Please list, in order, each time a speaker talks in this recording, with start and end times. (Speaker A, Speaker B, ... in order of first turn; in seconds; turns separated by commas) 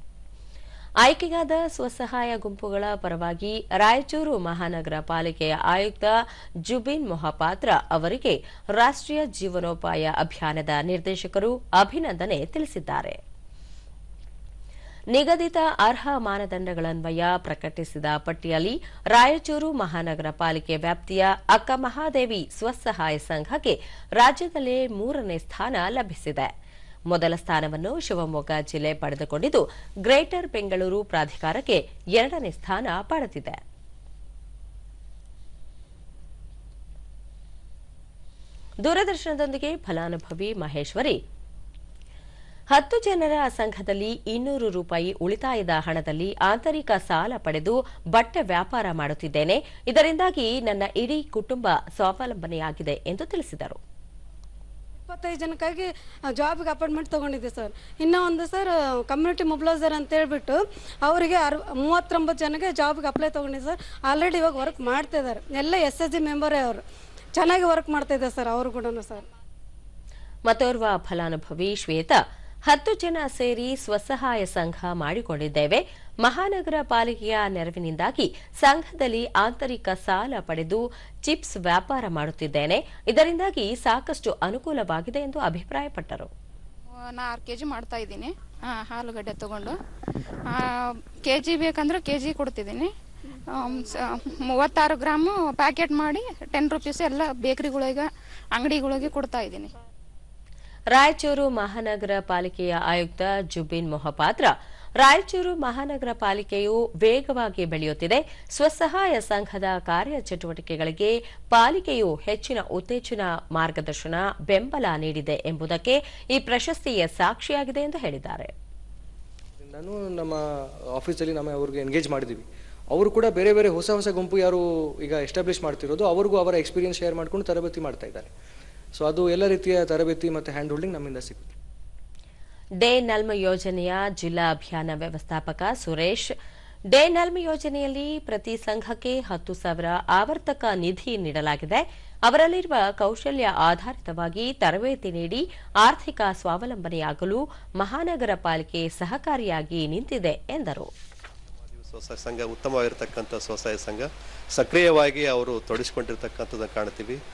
Speaker A: 1.0-13.2, Speaker A: 15.1-26.5, Speaker A: 27.1-33.6, Speaker A: 38.8-41.2, Speaker A: 42.7-53.8, Speaker B: 55.1-66.8, Speaker B: 67.3-69.3, Speaker A: 70.5-86.3, Speaker C: 87.1-89.8, Speaker C: 91.2-92.9, Speaker C: 93.5-99.7, Speaker A: 100.9-118.5, Speaker D: 119.6-120.4, Speaker D: 121.0-128.3, Speaker D: 128.9-131.6, Speaker A: 132.8-136.3, Speaker A: 136.9-150.9, Speaker E: 151.7-157.2